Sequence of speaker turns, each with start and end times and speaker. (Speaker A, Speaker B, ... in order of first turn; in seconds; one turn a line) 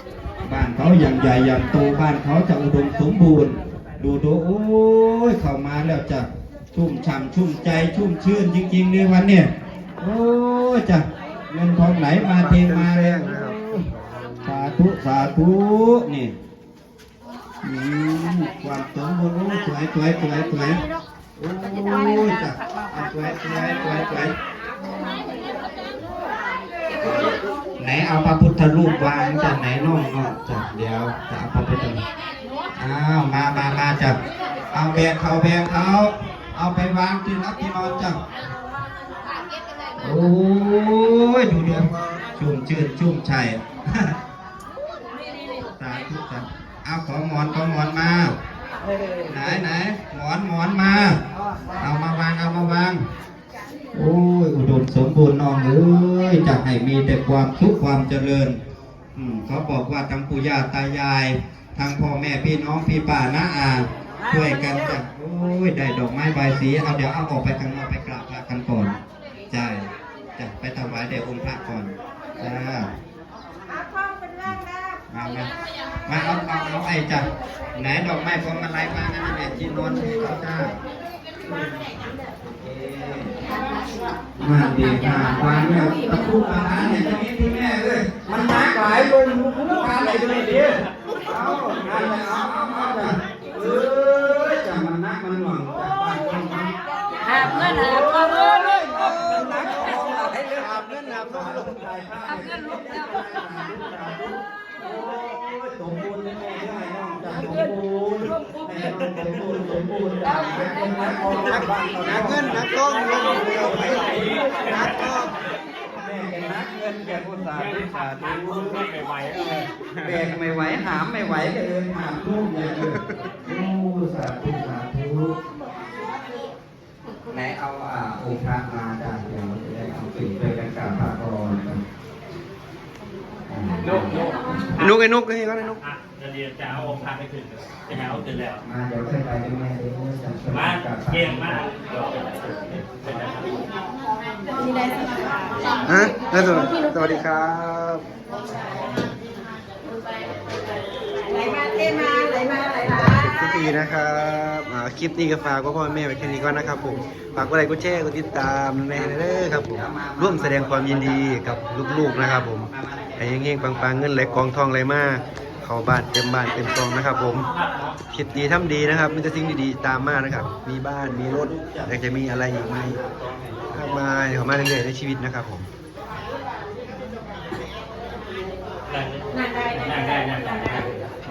Speaker A: 0.4-13.8
Speaker B: 12.2-14.6
Speaker A: 14.4-16.3
Speaker A: 17.6-20.8
Speaker A: 21.4-24.4
Speaker A: 27.0-32.0
Speaker A: 32.8-34.2
Speaker A: 34.7-38.2
Speaker A: 40.0-44.1
Speaker B: 41.7-42.2
Speaker A: 45.8-48.3
Speaker A: 49.2-51.2
Speaker A: 51.8-53.0
Speaker A: 53.9-58.6
Speaker A: 59.1-69.0
Speaker A: 69.5-72.9
Speaker A: 75.1-75.5
Speaker A: 76.0-80.8
Speaker A: 81.5-83.5
Speaker A: 84.4-96.8
Speaker A: 97.3-112.7
Speaker C: 97.3-98.7
Speaker B: 99.1-101.6
Speaker B: 111.3-115.3
Speaker A: 113.2-115.1
Speaker A: 116.0-118.9
Speaker D: 118.4-119.6
Speaker A: 120.0-125.4
Speaker A: 127.3-131.8
Speaker A: 133.5-134.7
Speaker B: 134.8-135.8
Speaker D: 135.9-138.6
Speaker A: 136.6-137.0
Speaker A: 137.9-141.7
Speaker D: 140.8-143.4
Speaker A: 142.6-143.1
Speaker C: 144.6-145.2
Speaker B: 145.8-148.1
Speaker A: 148.5-149.0
Speaker C: 151.6-152.8
Speaker B: 152.7-167.5
Speaker A: 159.6-164.4
Speaker B: 168.1-173.0
Speaker A: 171.2-174.0
Speaker B: 173.7-175.7
Speaker D: 179.0-180.8